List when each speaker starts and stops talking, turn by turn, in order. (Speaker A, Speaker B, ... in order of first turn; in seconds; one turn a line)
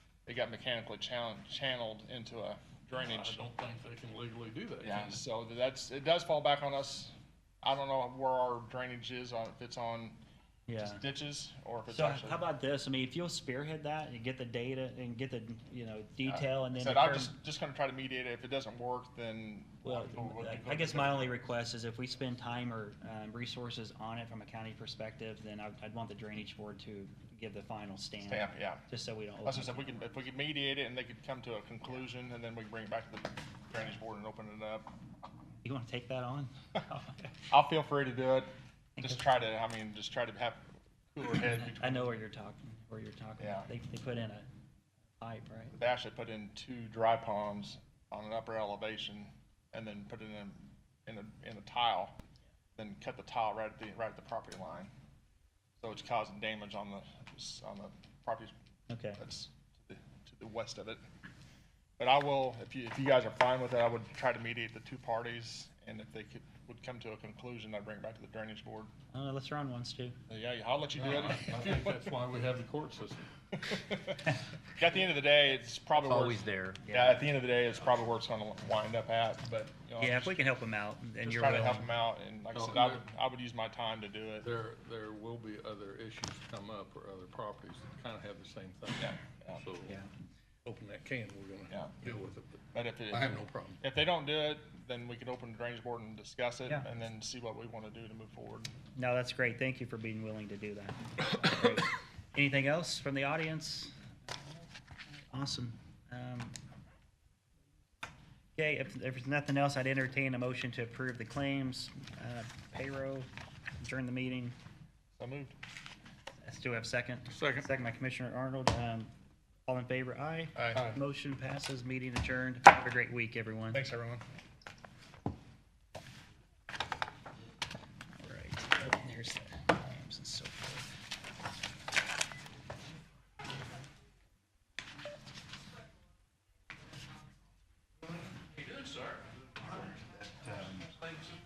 Speaker A: 0.2-3.4
Speaker B: 2.9-5.2
Speaker A: 4.8-10.2
Speaker C: 10.7-11.0
Speaker A: 10.8-12.4
Speaker C: 11.9-17.3
Speaker A: 16.2-21.4
Speaker C: 19.8-29.9
Speaker A: 28.2-28.8
Speaker A: 29.4-34.9
Speaker C: 35.6-37.4
Speaker A: 37.5-42.1
Speaker C: 39.0-39.4
Speaker C: 41.5-44.5
Speaker A: 43.4-43.7
Speaker C: 45.2-45.7
Speaker A: 45.7-52.1
Speaker A: 52.8-54.9
Speaker A: 55.8-58.5
Speaker C: 58.9-59.2
Speaker A: 59.2-61.0
Speaker A: 62.0-68.9
Speaker C: 69.1-70.2
Speaker A: 70.3-72.0
Speaker B: 71.0-73.3
Speaker A: 73.5-80.4
Speaker D: 76.0-76.8
Speaker C: 76.8-77.2
Speaker C: 80.0-81.9
Speaker A: 81.2-84.5
Speaker B: 82.5-83.0
Speaker B: 84.4-90.0
Speaker A: 89.0-89.6
Speaker B: 90.6-93.8
Speaker A: 91.7-92.1
Speaker A: 92.7-98.7
Speaker C: 99.0-106.5
Speaker C: 108.5-113.3
Speaker C: 113.8-114.5
Speaker A: 115.2-115.5
Speaker C: 116.4-119.1
Speaker B: 117.3-117.7
Speaker C: 119.7-123.8
Speaker A: 120.5-120.8
Speaker B: 120.7-121.0
Speaker A: 123.7-124.2
Speaker C: 128.2-130.9
Speaker D: 139.9-141.0